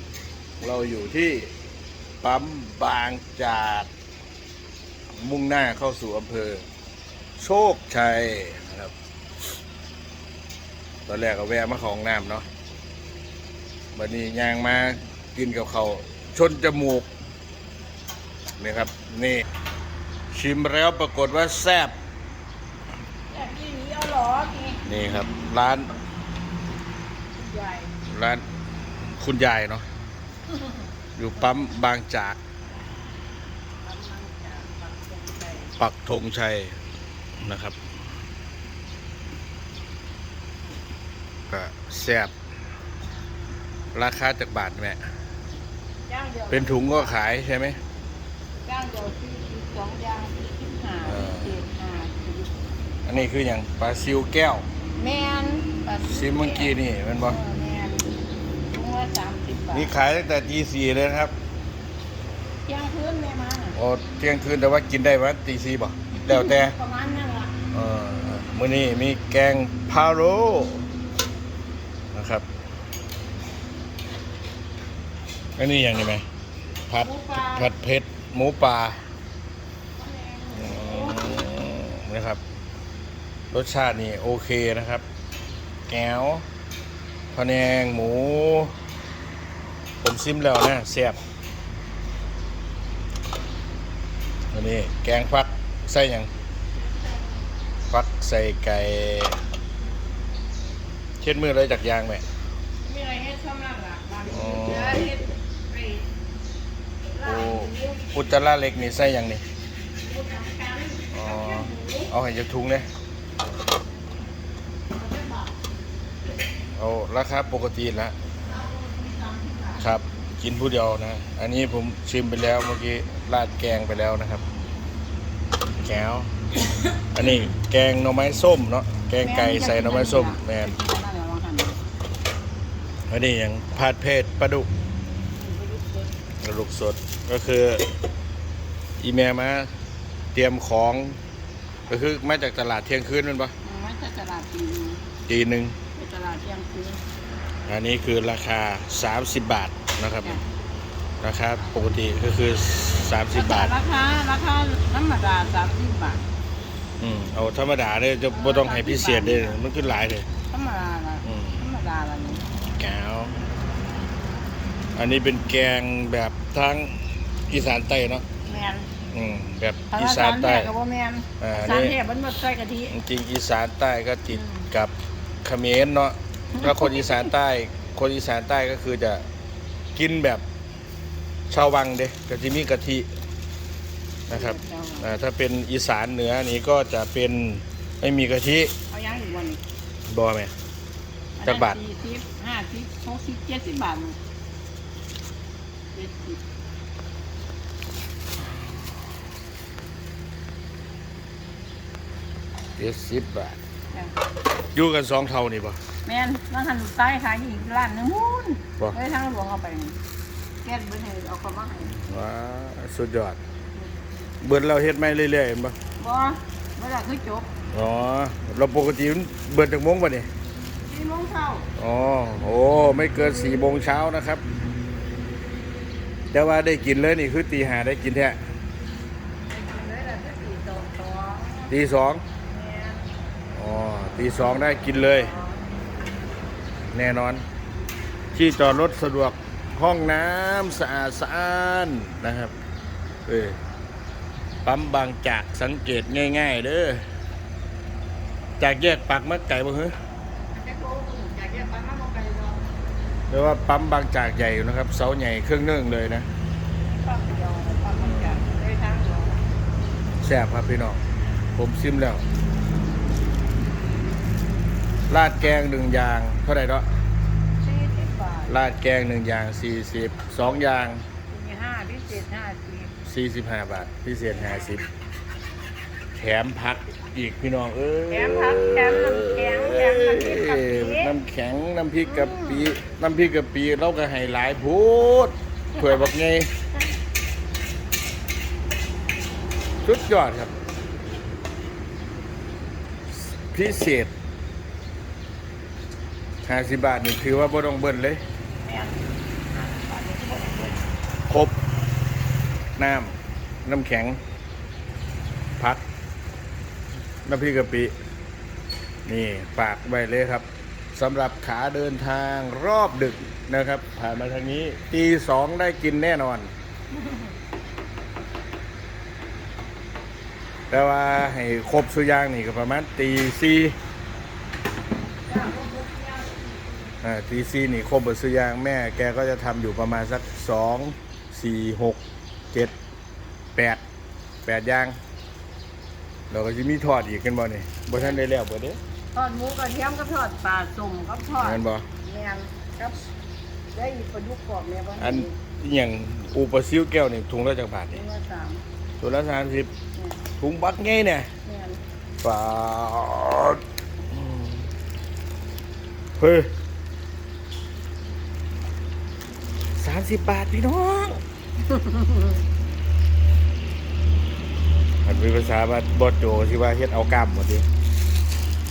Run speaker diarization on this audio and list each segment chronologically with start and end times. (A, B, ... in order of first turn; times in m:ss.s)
0:00.6-0:01.5 A
0:02.2-0:03.9 A
0:05.2-0:06.6 A
0:07.4-0:08.9 A
0:11.1-0:12.4 A
0:13.9-0:17.1 A
0:18.6-0:19.4 A
0:20.3-0:21.9 A
0:23.3-0:24.8 B
0:24.8-0:26.0 A
0:27.3-0:27.9 B
0:28.0-0:28.4 A
0:29.2-0:29.8 A
0:30.5-0:30.8 B
0:31.2-0:32.4 A
0:33.8-0:35.7 B
0:35.8-0:36.8 A
0:37.4-0:37.8 A
0:41.5-0:42.3 A
0:43.9-0:45.0 A
0:46.1-0:47.1 B
0:46.5-0:47.8 A
0:48.6-0:52.5 B
0:51.0-0:51.5 A
0:53.0-0:54.6 A
0:55.0-0:58.1 B
0:56.0-0:57.4 A
0:58.7-0:59.9 B
0:59.7-1:01.3 A
1:02.6-1:03.8 B
1:03.7-1:06.8 A
1:06.3-1:07.5 B
1:07.7-1:10.9 A
1:12.1-1:12.5 A
1:15.6-1:16.2 A
1:16.9-1:19.0 A
1:17.0-1:17.8 B
1:20.0-1:21.3 B
1:20.5-1:22.4 A
1:23.5-1:25.0 A
1:25.9-1:26.4 A
1:27.3-1:28.7 A
1:30.0-1:31.2 A
1:34.5-1:36.3 A
1:37.9-1:39.4 A
1:41.2-1:42.2 A
1:42.8-1:46.1 B
1:44.3-1:45.1 A
1:47.1-1:48.2 B
1:47.2-1:49.4 A
1:50.0-1:52.1 B
1:51.1-1:52.9 A
1:54.9-1:55.5 B
1:56.7-1:58.2 A
1:58.5-1:59.8 B
1:59.8-2:04.4 A
2:05.8-2:06.3 A
2:07.1-2:10.7 A
2:09.2-2:11.8 B
2:13.1-2:14.7 A
2:15.3-2:16.1 B
2:16.4-2:17.8 A
2:19.0-2:19.7 A
2:20.3-2:21.2 A
2:21.9-2:23.5 A
2:23.6-2:25.0 B
2:25.3-2:25.8 A
2:25.9-2:27.0 B
2:27.7-2:30.4 A
2:31.2-2:33.7 A
2:33.3-2:36.2 B
2:37.0-2:40.3 A
2:38.3-2:39.6 B
2:40.5-2:42.4 B
2:41.2-2:41.6 A
2:42.7-2:43.4 A
2:44.9-2:46.9 A
2:47.5-2:48.2 A
2:48.4-2:48.9 B
2:49.1-2:50.7 A
2:49.9-2:52.9 B
2:51.4-2:52.0 A
2:52.9-2:54.9 A
2:54.3-2:54.7 B
2:55.4-2:59.2 A
2:56.6-2:57.2 B
3:00.0-3:00.4 A
3:01.5-3:03.1 A
3:04.3-3:08.7 A
3:04.3-3:05.1 B
3:08.9-3:09.6 B
3:10.1-3:10.5 A
3:11.4-3:14.2 B
3:11.4-3:11.8 A
3:15.9-3:16.4 B
3:22.8-3:23.6 A
3:24.7-3:25.8 A
3:26.0-3:30.0 B
3:30.6-3:31.9 B
3:31.8-3:33.4 A
3:33.8-3:34.0 B
3:34.4-3:35.8 A
3:36.0-3:37.5 B
3:37.7-3:40.3 A
3:40.9-3:41.7 B
3:41.8-3:44.4 A
3:46.3-3:48.4 A
3:49.5-3:51.7 B
3:51.7-3:52.2 A
3:52.4-3:53.1 B
3:53.5-3:55.3 A
3:55.0-3:55.6 B
3:56.9-3:57.4 A
3:58.3-4:02.5 A
4:03.2-4:03.6 A
4:04.6-4:07.0 A
4:08.6-4:09.9 A
4:10.5-4:12.6 B
4:13.3-4:16.3 A
4:16.9-4:19.4 B
4:18.0-4:18.4 A
4:20.2-4:21.0 A
4:21.6-4:22.2 A
4:25.1-4:26.8 A
4:27.6-4:28.6 B
4:28.5-4:31.0 A
4:31.3-4:32.9 B
4:33.0-4:34.8 A
4:34.3-4:34.8 B
4:36.1-4:46.5 A
4:38.1-4:41.1 B
4:42.0-4:42.7 B
4:49.8-4:50.5 A
4:53.1-4:54.1 A
4:56.4-4:58.2 A
4:58.6-5:00.8 B
5:01.3-5:01.6 A
5:02.8-5:04.2 A
5:05.6-5:05.8 A
5:07.2-5:07.9 A
5:09.1-5:16.5 A
5:16.9-5:17.3 B
5:20.7-5:23.8 A
5:25.2-5:26.9 B
5:27.0-5:32.0 A
5:33.5-5:33.8 A
5:34.4-5:35.0 A
5:36.3-5:38.8 A
5:37.9-5:38.2 B
5:39.1-5:43.1 B
5:41.4-5:41.8 A
5:43.7-5:45.3 B
5:45.0-5:48.0 A
5:47.9-5:48.6 B
5:49.0-5:49.7 A
5:50.4-5:51.3 A
5:51.4-5:51.8 B
5:52.2-5:54.7 A
5:56.2-5:56.5 A
5:59.8-6:01.2 A
6:01.6-6:02.4 B
6:05.0-6:07.6 A